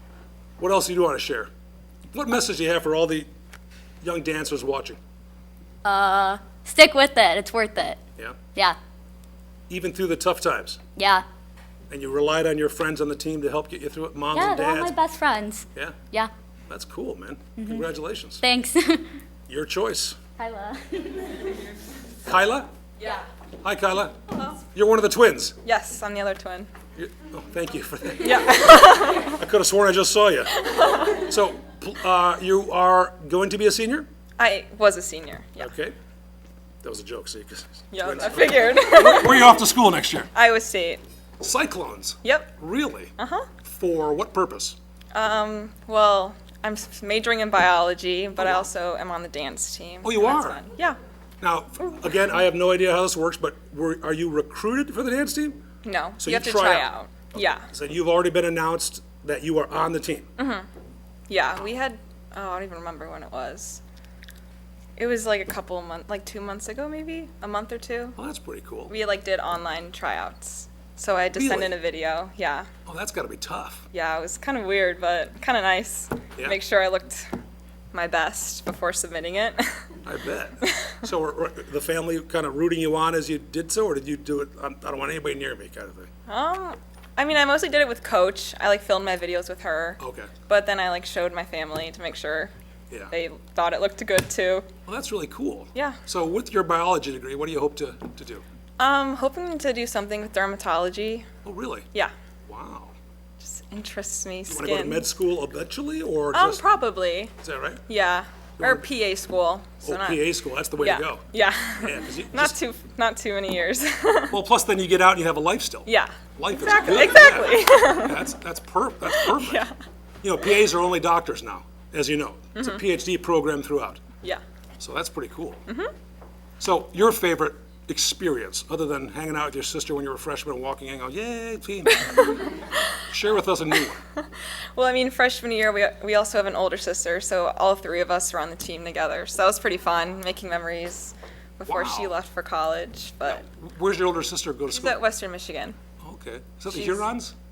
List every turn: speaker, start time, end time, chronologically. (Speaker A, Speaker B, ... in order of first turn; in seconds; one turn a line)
Speaker A: 0.6-1.5
Speaker A: 2.1-3.3
Speaker A: 4.0-5.0
Speaker B: 5.8-8.0
Speaker A: 9.7-10.8
Speaker B: 10.9-11.2
Speaker A: 11.9-14.9
Speaker B: 14.3-16.3
Speaker A: 16.7-18.4
Speaker B: 17.6-17.9
Speaker B: 18.4-19.1
Speaker A: 19.5-20.2
Speaker B: 20.4-21.3
Speaker A: 22.2-22.7
Speaker A: 23.6-24.2
Speaker A: 24.7-25.6
Speaker C: 25.6-26.7
Speaker A: 26.9-30.5
Speaker C: 28.2-29.3
Speaker C: 30.6-31.2
Speaker A: 31.2-34.1
Speaker C: 34.4-35.7
Speaker A: 35.6-35.9
Speaker A: 36.8-40.3
Speaker C: 37.9-39.6
Speaker C: 40.3-41.0
Speaker A: 41.4-43.1
Speaker C: 42.2-42.5
Speaker C: 43.2-43.5
Speaker A: 43.6-44.8
Speaker C: 45.1-51.0
Speaker A: 48.4-48.7
Speaker A: 50.0-50.6
Speaker A: 51.4-55.6
Speaker C: 55.8-57.6
Speaker A: 56.2-60.3
Speaker C: 60.4-60.7
Speaker C: 61.3-63.8
Speaker C: 65.0-68.2
Speaker A: 68.2-68.9
Speaker C: 68.9-72.7
Speaker A: 71.3-71.8
Speaker A: 72.8-73.8
Speaker C: 73.9-77.3
Speaker C: 77.9-79.8
Speaker A: 80.0-86.1
Speaker C: 80.7-80.9
Speaker C: 86.3-92.5
Speaker A: 90.0-90.3
Speaker C: 93.1-94.7
Speaker A: 94.8-98.4
Speaker C: 95.7-96.0
Speaker C: 98.8-101.3
Speaker A: 101.4-101.9
Speaker A: 102.5-102.9
Speaker C: 103.4-105.1
Speaker A: 104.5-106.6
Speaker C: 106.3-107.3
Speaker A: 107.4-107.8
Speaker C: 107.9-110.3
Speaker A: 108.6-108.8
Speaker A: 109.8-111.2
Speaker C: 110.8-114.3
Speaker A: 111.8-112.5
Speaker A: 114.3-119.6
Speaker C: 115.8-118.2
Speaker C: 119.1-119.7
Speaker A: 120.2-124.0
Speaker C: 122.5-122.8
Speaker A: 124.8-125.6
Speaker A: 126.6-132.3
Speaker A: 133.1-134.0
Speaker C: 134.8-143.4
Speaker A: 141.7-142.1
Speaker A: 143.2-145.0
Speaker C: 144.7-145.8
Speaker A: 146.0-147.3
Speaker C: 146.7-147.1